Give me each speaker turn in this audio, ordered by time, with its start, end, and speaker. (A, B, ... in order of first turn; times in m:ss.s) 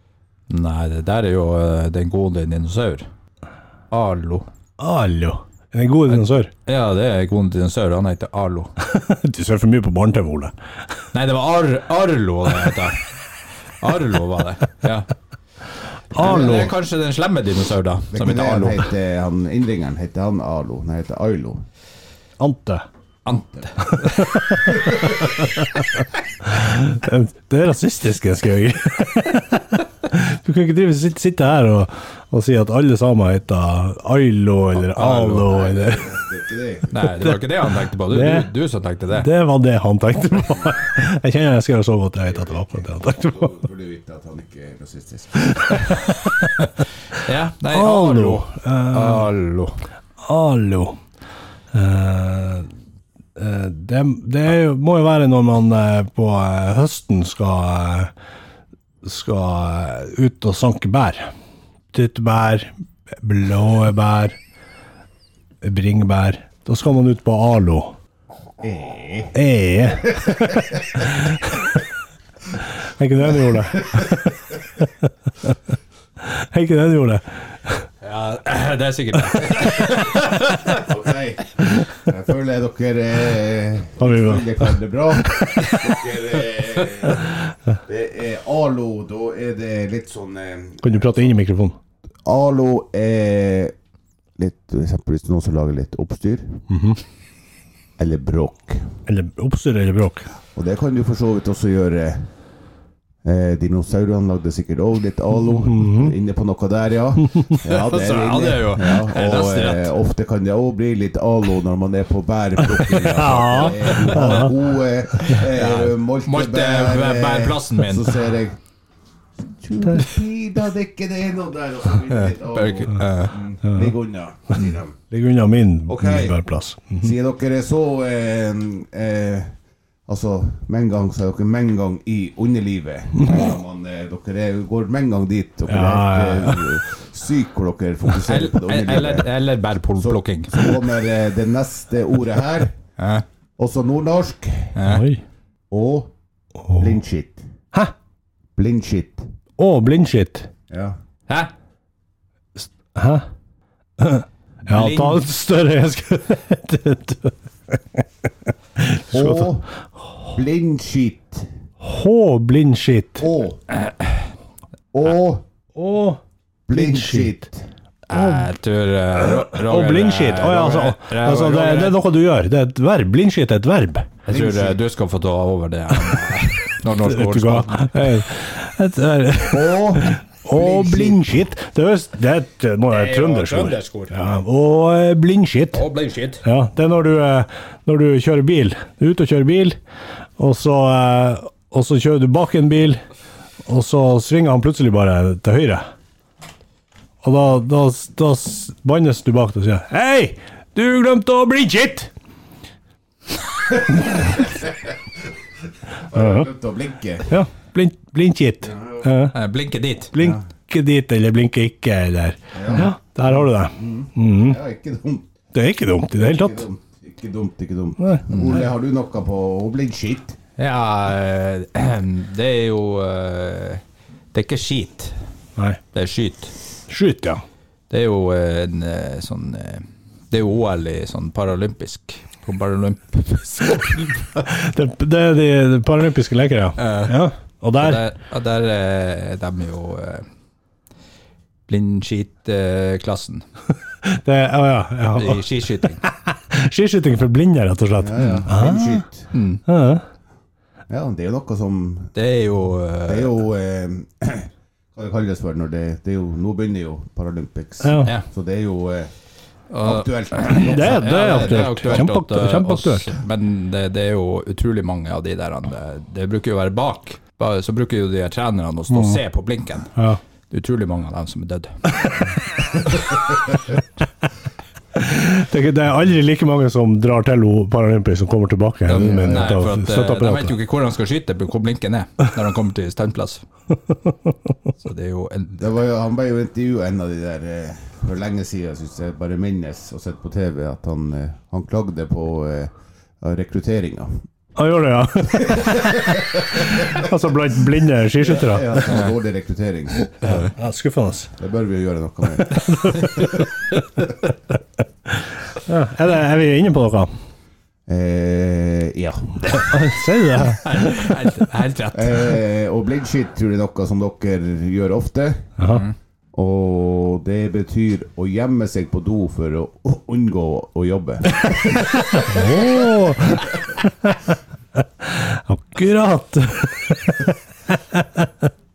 0:00.5-0:03.1 A
0:03.9-0:04.5 A
0:04.8-0:06.5 B
0:06.2-0:08.7 A
0:08.8-0:10.5 B
0:11.1-0:13.0 A
0:13.8-0:15.1 A
0:16.1-0:16.7 B
0:16.1-0:18.9 A
0:16.2-0:16.7 C
0:18.1-0:21.6 C
0:22.4-0:22.8 B
0:23.2-0:24.7 A
0:23.3-0:23.6 C
0:23.8-0:36.1 B
0:34.8-0:35.6 A
0:35.5-0:37.1 C
0:36.9-0:39.3 A
0:38.1-0:38.5 B
0:39.1-0:43.6 B
0:42.3-0:45.7 C
0:45.5-0:46.5 B
0:47.2-0:49.8 A
0:47.7-0:49.3 B
0:50.2-0:51.0 B
0:51.7-0:52.7 B
0:53.4-0:58.1 B
0:59.0-1:01.3 B
1:01.9-1:04.4 B
1:05.6-1:08.0 B
1:08.6-1:09.3 C
1:09.3-1:11.6 B
1:10.0-1:11.1 C
1:12.8-1:15.6 B
1:13.4-1:14.3 C
1:16.2-1:17.8 B
1:18.0-1:20.8 A
1:20.6-1:31.3 C
1:24.0-1:24.8 B
1:30.8-1:31.8 B
1:32.2-1:33.7 C
1:34.4-1:36.6 C
1:36.7-1:37.0 B
1:38.0-1:38.8 C
1:39.1-1:40.3 B
1:40.5-1:42.3 C
1:43.2-1:58.6 C
1:45.4-1:46.1 B
1:47.6-1:49.9 A
1:52.8-1:54.5 B
1:55.2-1:58.2 A
1:59.4-2:05.0 C
2:02.1-2:03.4 A
2:03.6-2:03.9 B
2:05.1-2:07.1 B
2:05.9-2:06.4 C
2:07.0-2:09.5 C
2:10.1-2:19.3 C
2:15.7-2:16.8 B
2:18.2-2:20.8 A
2:20.0-2:22.7 C
2:23.0-2:23.2 A
2:23.6-2:24.8 C
2:24.8-2:25.1 A
2:24.8-2:25.2 B
2:25.7-2:26.1 C
2:26.7-2:27.0 B
2:26.7-2:27.4 C
2:28.6-2:29.3 C
2:29.6-2:30.5 B
2:30.7-2:31.0 C
2:32.6-2:33.3 B
2:34.0-2:38.0 B
2:34.7-2:35.2 A
2:38.8-2:39.5 B
2:39.1-2:39.7 C
2:40.3-2:41.5 C
2:41.8-2:43.3 B
2:43.2-2:43.6 C
2:44.9-2:45.4 C
2:45.7-2:46.2 B
2:46.7-2:47.7 C
2:46.7-2:47.3 B
2:48.1-2:52.0 A
2:48.1-2:48.5 B
2:49.1-2:54.1 B
2:54.2-2:54.8 C
2:54.2-2:58.0 A
2:57.0-3:05.8 B
2:59.5-3:01.3 C
3:02.9-3:04.1 A
3:05.7-3:06.4 A
3:06.4-3:09.8 B
3:10.4-3:13.0 B
3:13.6-3:15.8 B
3:17.2-3:22.1 B
3:24.2-3:24.9 C
3:26.0-3:27.3 C
3:26.1-3:26.5 B
3:27.3-3:29.4 B
3:28.6-3:29.0 C
3:29.3-3:30.1 A
3:30.1-3:34.6 B
3:30.2-3:30.4 C
3:32.5-3:35.3 C
3:35.5-3:36.7 B
3:36.2-3:40.4 C
3:38.0-3:38.4 B
3:38.3-3:38.6 A
3:40.6-3:43.8 A
3:44.3-3:45.2 A
3:45.9-3:46.5 A
3:46.9-3:47.4 B
3:47.9-3:54.4 A
3:54.5-3:58.0 B
3:56.8-3:57.2 A
3:57.8-4:00.3 A
4:01.7-4:03.4 A
4:04.0-4:09.0 B
4:05.2-4:06.0 A
4:08.0-4:09.3 C
4:09.3-4:09.6 A
4:09.6-4:10.0 B
4:10.9-4:12.1 C
4:12.1-4:13.3 A
4:13.0-4:19.1 C
4:17.8-4:18.1 B
4:19.7-4:29.9 A
4:19.8-4:22.0 C
4:20.5-4:23.1 B
4:28.9-4:29.2 B
4:29.9-4:30.2 B
4:30.5-4:32.2 A
4:32.8-4:33.0 A
4:34.9-4:40.5 B
4:38.9-4:43.4 A
4:38.9-4:39.6 C
4:43.9-4:44.3 B
4:44.8-4:45.8 A
4:45.6-4:54.2 C
4:54.6-4:58.9 B
4:55.5-4:57.1 C
4:58.2-5:00.1 C
5:00.0-5:01.3 B
5:01.4-5:02.7 C
5:02.4-5:03.4 B
5:05.6-5:07.1 B
5:07.9-5:09.7 C
5:09.7-5:10.6 B
5:10.6-5:12.4 A
5:11.9-5:15.5 C
5:15.6-5:15.8 B
5:15.7-5:15.9 A
5:16.3-5:22.5 C
5:22.2-5:28.5 B